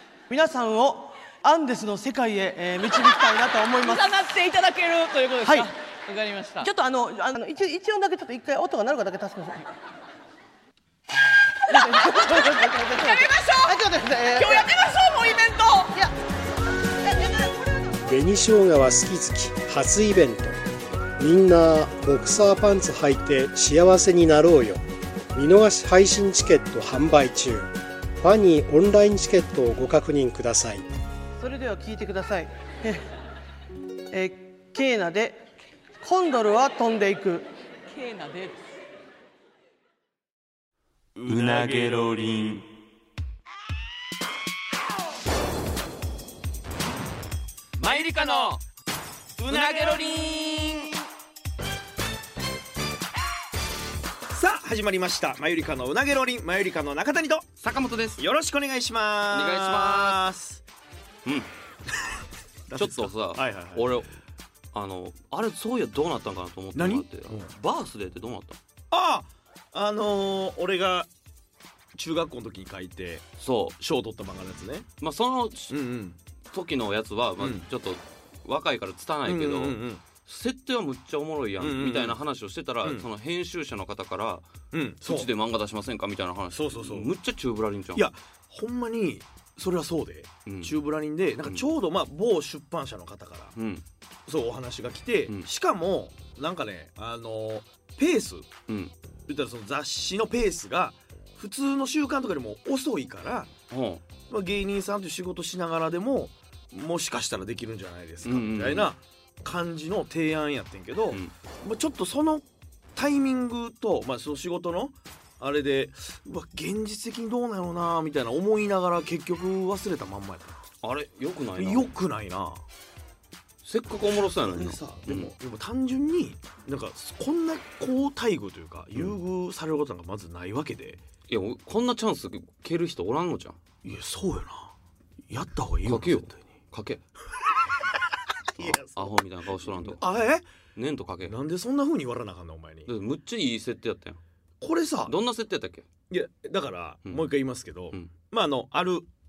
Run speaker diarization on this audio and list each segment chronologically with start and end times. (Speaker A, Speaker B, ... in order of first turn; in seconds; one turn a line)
Speaker A: 0.3-4.2
Speaker B: 3.8-6.7
Speaker A: 5.4-5.7
Speaker A: 6.6-9.7
Speaker A: 11.7-14.7
Speaker B: 11.7-16.0
Speaker A: 17.1-17.6
Speaker C: 18.1-20.6
Speaker C: 21.2-24.8
Speaker C: 25.3-30.9
Speaker A: 31.4-33.1
Speaker A: 34.1-35.4
Speaker A: 36.0-37.5
Speaker B: 37.9-38.7
Speaker D: 41.2-42.1
Speaker E: 41.2-42.7
Speaker E: 47.8-48.6
Speaker D: 49.4-50.2
Speaker E: 49.5-51.0
Speaker D: 54.3-57.5
Speaker E: 57.6-58.3
Speaker D: 58.2-60.6
Speaker E: 59.3-60.2
Speaker E: 61.2-61.5
Speaker D: 62.7-63.9
Speaker E: 62.8-64.1
Speaker E: 64.7-68.6
Speaker D: 66.8-67.5
Speaker D: 68.9-71.1
Speaker D: 72.0-73.3
Speaker E: 73.4-73.8
Speaker D: 73.8-74.9
Speaker E: 75.0-75.8
Speaker D: 75.7-76.2
Speaker E: 76.5-84.5
Speaker D: 77.4-77.7
Speaker D: 79.2-80.0
Speaker D: 81.6-82.2
Speaker D: 84.7-85.3
Speaker E: 85.0-88.1
Speaker D: 86.5-87.1
Speaker D: 87.9-93.5
Speaker E: 90.5-90.8
Speaker E: 93.6-93.8
Speaker D: 94.3-98.5
Speaker E: 98.7-98.9
Speaker D: 99.3-103.5
Speaker E: 103.7-104.0
Speaker D: 104.3-120.6
Speaker E: 108.2-108.9
Speaker E: 120.8-121.9
Speaker D: 121.6-122.7
Speaker E: 123.6-125.3
Speaker D: 124.5-131.0
Speaker E: 131.3-133.6
Speaker D: 133.8-134.7
Speaker D: 135.3-136.4
Speaker E: 135.9-137.0
Speaker D: 138.5-140.4
Speaker E: 138.6-140.0
Speaker E: 140.8-141.4
Speaker D: 141.3-142.9
Speaker E: 142.9-144.2
Speaker D: 144.6-145.2
Speaker E: 145.1-145.9
Speaker D: 146.1-149.1